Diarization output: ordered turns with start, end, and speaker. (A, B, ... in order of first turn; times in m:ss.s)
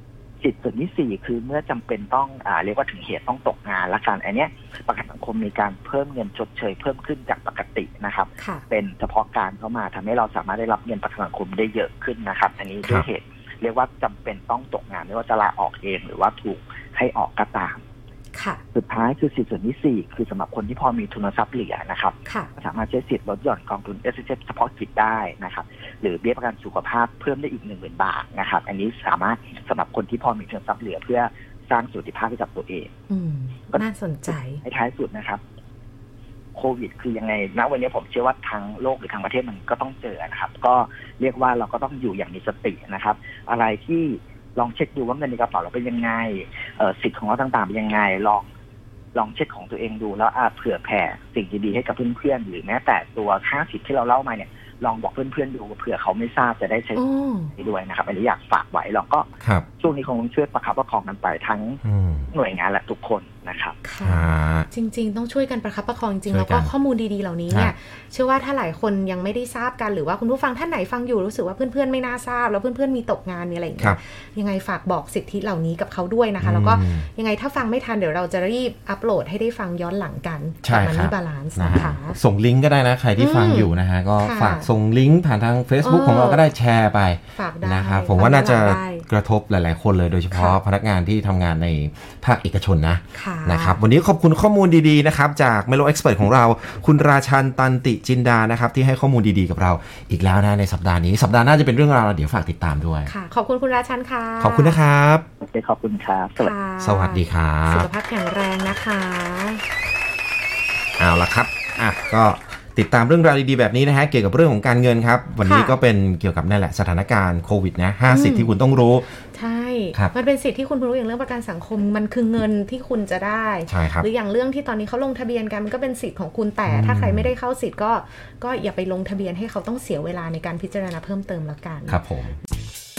0:00.4-0:17.8 A
0:08.4-0:08.6 B
0:18.3-0:18.6 B
0:18.7-0:32.9 A
0:22.2-0:22.5 B
0:33.1-0:34.6 B
0:33.7-0:35.4 A
0:36.6-0:48.5 A
0:49.2-0:57.0 A
0:57.0-0:57.5 B
0:57.6-1:03.8 A
1:01.8-1:02.3 C
1:03.8-1:22.2 B
1:04.0-1:04.7 C
1:06.3-1:06.7 C
1:16.4-1:17.1 C
1:20.6-1:43.1 C
1:23.2-1:24.7 B
1:25.8-1:26.5 B
1:27.4-1:29.1 B
1:30.3-1:30.6 B
1:33.1-1:33.8 B
1:43.1-1:44.8 B
1:44.4-1:45.3 C
1:45.4-1:46.5 A
1:46.4-1:49.6 B
1:46.8-1:47.9 C
1:51.0-1:59.1 C
1:55.4-1:55.8 B
1:58.1-1:58.5 B
1:59.3-2:12.0 B
2:03.7-2:04.1 C
2:06.7-2:07.3 C
2:11.9-2:12.4 C